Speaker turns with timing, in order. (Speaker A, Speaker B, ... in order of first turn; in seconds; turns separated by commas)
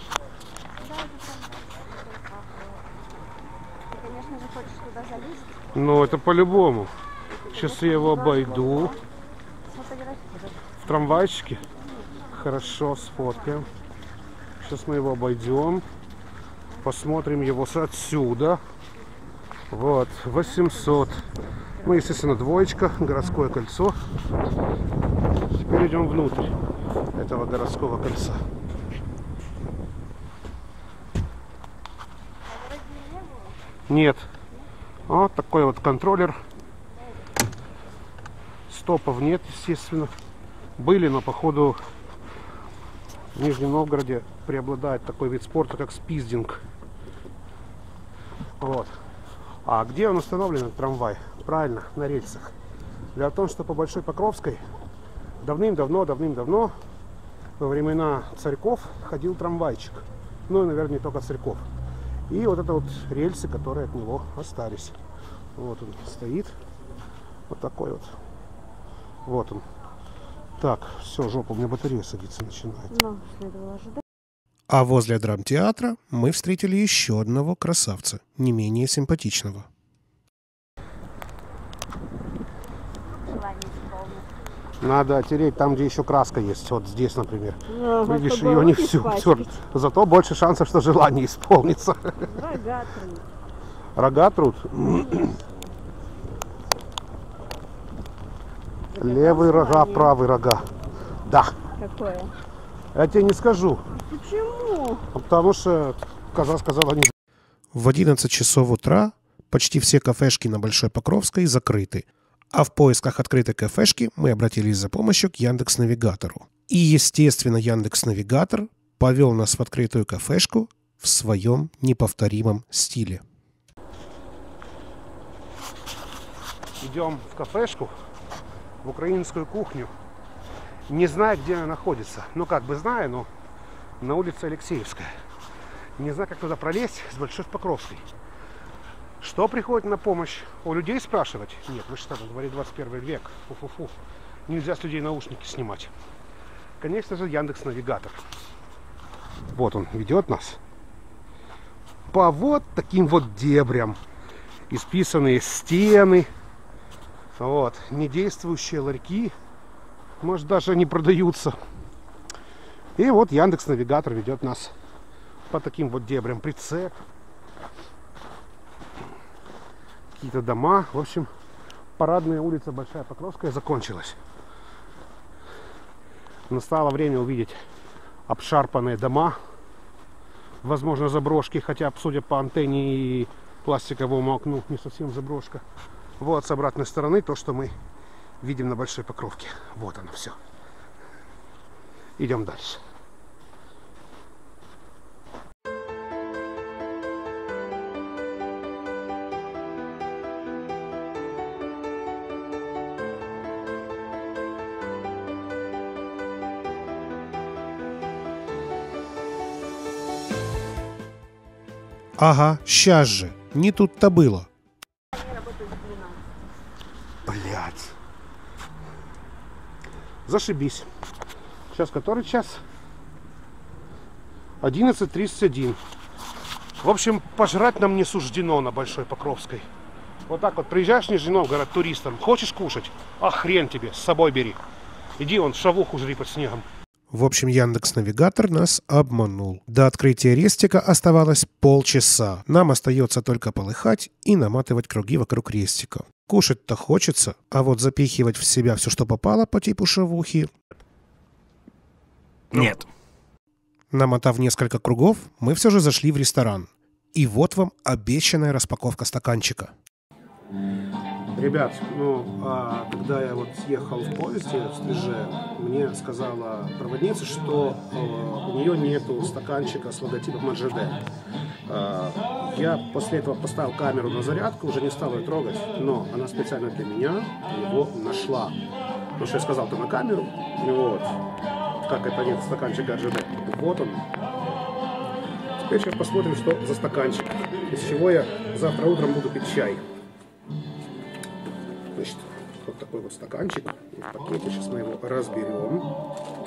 Speaker A: 0.8-2.6, Speaker A: 3.9-5.6, Speaker B: 5.8-6.9, Speaker A: 7.5-9.0, Speaker B: 7.5-8.9, Speaker A: 9.7-10.5, Speaker B: 10.8-11.6, Speaker B: 12.3-13.7, Speaker B: 14.6-15.8, Speaker B: 16.8-18.6, Speaker B: 19.7-21.2, Speaker B: 21.8-24.0, Speaker B: 25.6-26.5, Speaker B: 27.1-28.4, Speaker A: 32.5-33.5, Speaker B: 33.9-34.3, Speaker B: 35.1-36.4, Speaker B: 38.7-40.1, Speaker B: 40.8-41.8, Speaker B: 43.4-46.6, Speaker B: 48.6-48.9, Speaker B: 49.6-52.5, Speaker B: 53.1-54.6, Speaker B: 55.4-56.7, Speaker B: 57.6-61.7, Speaker B: 62.3-65.0, Speaker B: 65.6-66.5, Speaker B: 67.5-68.1, Speaker B: 69.2-69.6, Speaker B: 70.6-73.0, Speaker A: 72.9-74.0, Speaker C: 74.7-79.7, Speaker A: 83.2-84.3, Speaker B: 84.8-92.2, Speaker A: 87.7-89.6, Speaker A: 92.2-93.2, Speaker B: 94.0-95.4, Speaker A: 98.9-100.2, Speaker B: 99.0-100.6, Speaker B: 101.2-101.6, Speaker A: 101.8-102.3, Speaker B: 102.9-103.8, Speaker A: 104.0-105.0, Speaker B: 105.1-107.1, Speaker C: 107.7-123.2, Speaker B: 126.8-127.9, Speaker B: 128.8-129.9, Speaker B: 130.9-133.3, Speaker B: 134.0-135.1, Speaker B: 136.0-138.1, Speaker B: 139.2-143.9, Speaker B: 144.5-145.9, Speaker B: 146.8-148.2, Speaker B: 149.5-150.6, Speaker B: 152.1-154.0, Speaker B: 154.7-156.3, Speaker B: 157.4-159.3, Speaker B: 160.2-161.6, Speaker B: 163.0-164.7, Speaker B: 165.5-166.9, Speaker B: 170.2-171.3, Speaker B: 172.0-174.2, Speaker B: 176.5-177.6, Speaker B: 178.3-179.4, Speaker B: 180.6-185.6, Speaker B: 186.2-187.7, Speaker B: 188.4-190.4, Speaker B: 192.2-192.8, Speaker C: 212.2-214.5, Speaker A: 215.1-216.2, Speaker B: 217.3-217.9, Speaker B: 220.3-220.9, Speaker B: 221.7-222.6, Speaker B: 224.6-225.8, Speaker B: 226.8-229.7, Speaker B: 230.3-234.6, Speaker B: 235.2-236.7, Speaker C: 237.1-250.5, Speaker C: 253.9-259.7, Speaker B: 261.3-271.0, Speaker B: 271.7-278.6, Speaker B: 279.2-281.2, Speaker B: 281.8-284.1, Speaker B: 285.6-289.8, Speaker B: 291.9-295.9